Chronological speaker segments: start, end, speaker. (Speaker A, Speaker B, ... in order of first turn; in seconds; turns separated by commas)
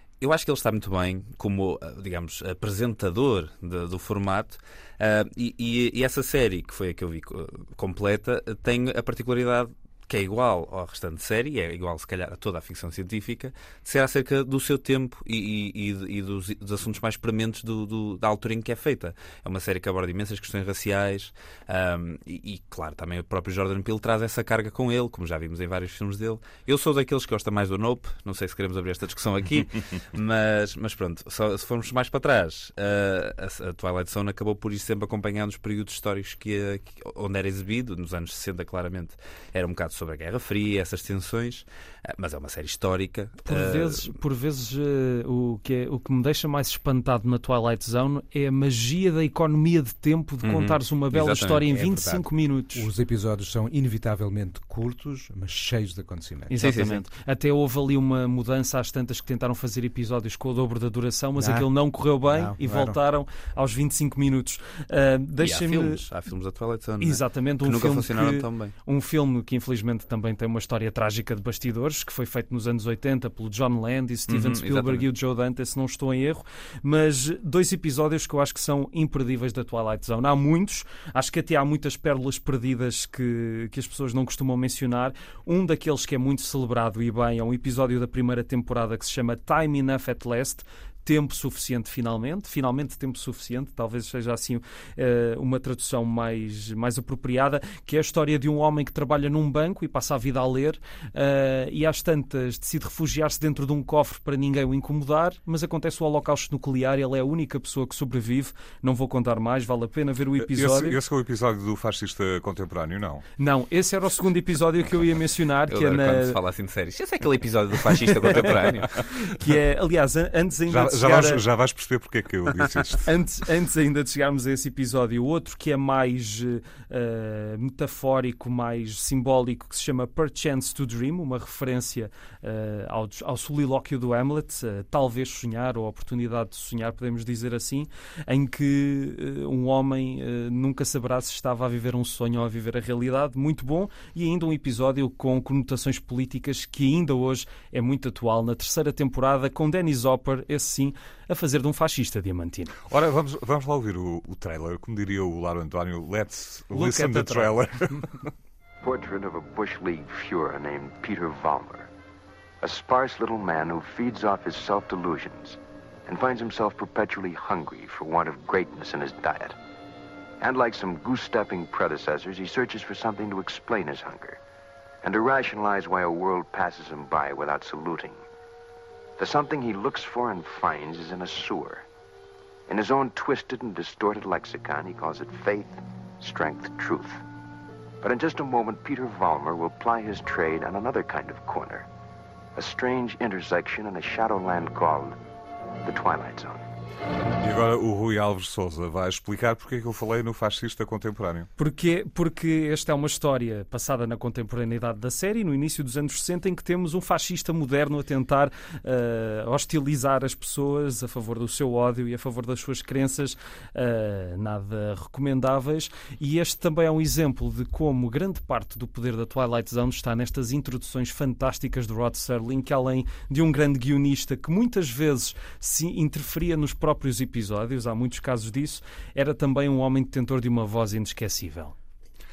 Speaker A: 0.2-44.2, Speaker B: 43.5-52.9, Speaker A: 50.4-51.6, Speaker C: 51.6-56.6, Speaker B: 56.5-66.0, Speaker A: 56.6-57.0, Speaker C: 61.4-61.7, Speaker C: 62.3-63.0, Speaker A: 65.4-68.7, Speaker B: 67.0-111.0, Speaker A: 74.3-75.1, Speaker D: 110.4-113.2, Speaker B: 113.4-116.4, Speaker A: 115.7-118.9, Speaker B: 118.1-121.4, Speaker D: 120.7-123.1, Speaker B: 123.0-152.8, Speaker D: 152.9-158.3, Speaker B: 156.7-158.0, Speaker E: 158.8-161.9, Speaker E: 162.6-169.6, Speaker E: 170.4-174.4, Speaker E: 175.0-178.2, Speaker E: 179.2-181.8, Speaker E: 182.7-187.2, Speaker E: 188.0-191.9, Speaker E: 192.6-195.1, Speaker E: 195.8-196.6, Speaker D: 197.4-201.5, Speaker B: 201.6-231.7